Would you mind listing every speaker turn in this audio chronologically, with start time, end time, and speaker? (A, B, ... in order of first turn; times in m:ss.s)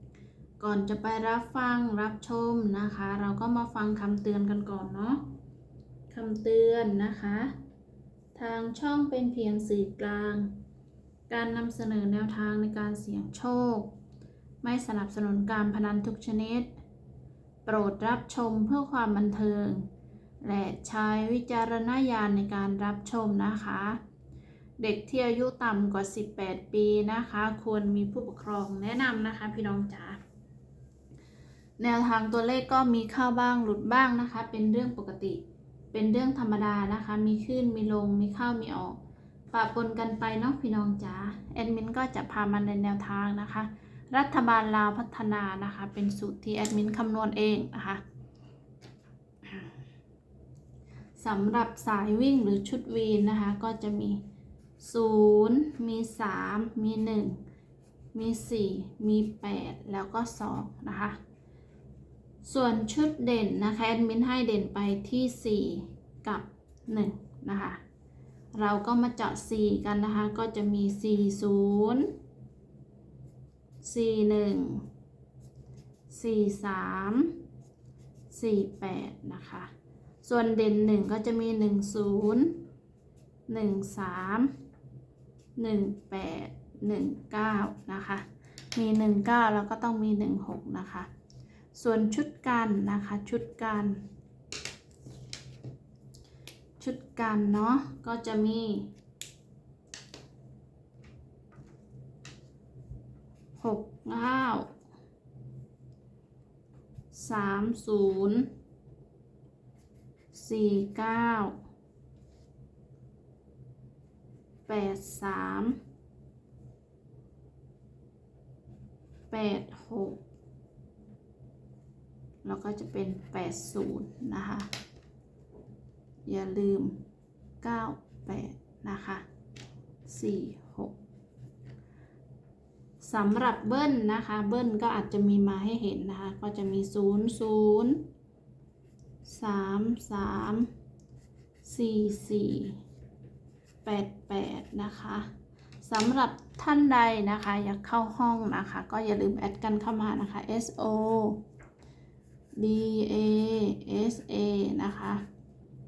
0:00.6-0:05.3 A
0:06.1-0:07.6 A
0:08.4-0:10.5 A
0:11.3-0:13.9 A
0:14.6-0:16.7 A
0:17.7-0:19.9 A
0:20.4-0:24.0 A
0:24.8-0:30.2 A
0:31.8-0:35.4 A
0:35.9-0:39.0 A
0:39.5-0:48.0 A
0:51.2-0:54.2 A
0:54.8-0:57.4 A
0:58.1-1:01.2 A
1:02.4-1:07.8 A
1:08.6-1:12.1 A
1:13.8-1:14.8 A
1:16.1-1:17.4 A
1:18.3-1:19.7 A
1:20.2-1:22.6 A
1:23.5-1:24.5 A
1:25.6-1:31.1 A
1:31.8-1:34.0 A
1:36.8-1:38.9 A
1:43.6-1:44.7 A
1:47.1-1:48.5 A
1:50.3-1:51.6 A
1:54.7-1:55.8 A
1:59.3-2:00.2 A
2:02.4-2:04.7 A
2:06.3-2:07.0 A
2:07.6-2:09.2 A
2:10.1-2:11.0 A
2:13.0-2:18.0 A
2:19.2-2:20.7 A
2:21.6-2:22.8 A
2:23.8-2:25.3 A
2:25.8-2:31.4 A
2:32.6-2:35.2 A